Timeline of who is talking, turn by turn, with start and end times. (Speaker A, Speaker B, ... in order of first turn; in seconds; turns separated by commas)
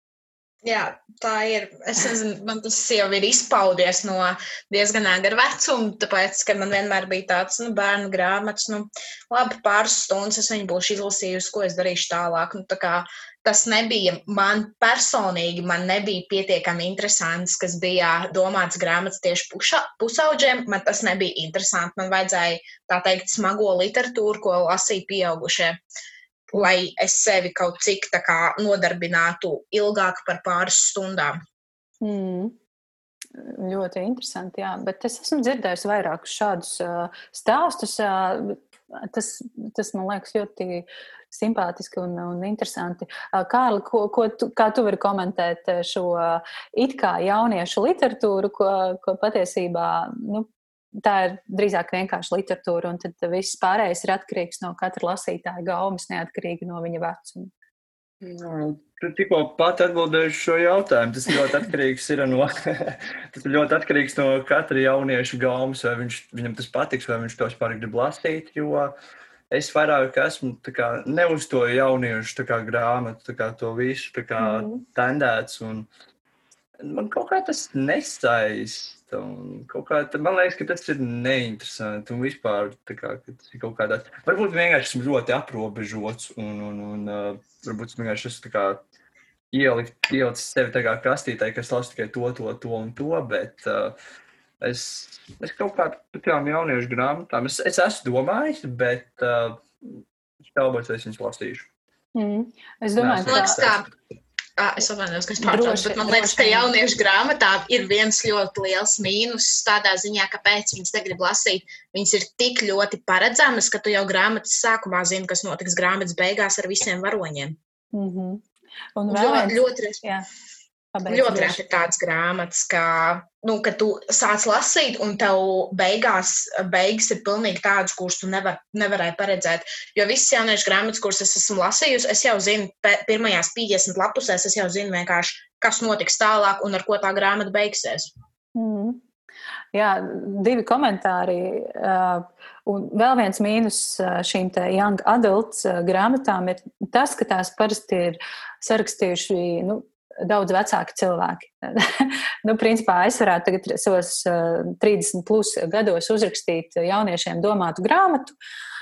Speaker A: 0.6-25.8, Speaker A: 26.5-31.4, Speaker B: 32.0-32.6, Speaker B: 33.4-50.5, Speaker B: 51.0-57.5, Speaker C: 58.2-68.9, Speaker C: 69.5-75.9, Speaker B: 74.4-74.8, Speaker C: 76.8-88.8, Speaker C: 89.5-94.0, Speaker C: 94.6-101.7, Speaker B: 102.2-103.6, Speaker C: 103.0-103.8, Speaker A: 103.3-103.9, Speaker A: 104.6-117.6, Speaker B: 105.4-106.7, Speaker B: 117.9-118.5, Speaker B: 119.0-120.3, Speaker A: 119.1-120.0, Speaker B: 120.9-121.6, Speaker A: 121.1-138.1, Speaker B: 138.6-139.0, Speaker B: 139.7-158.4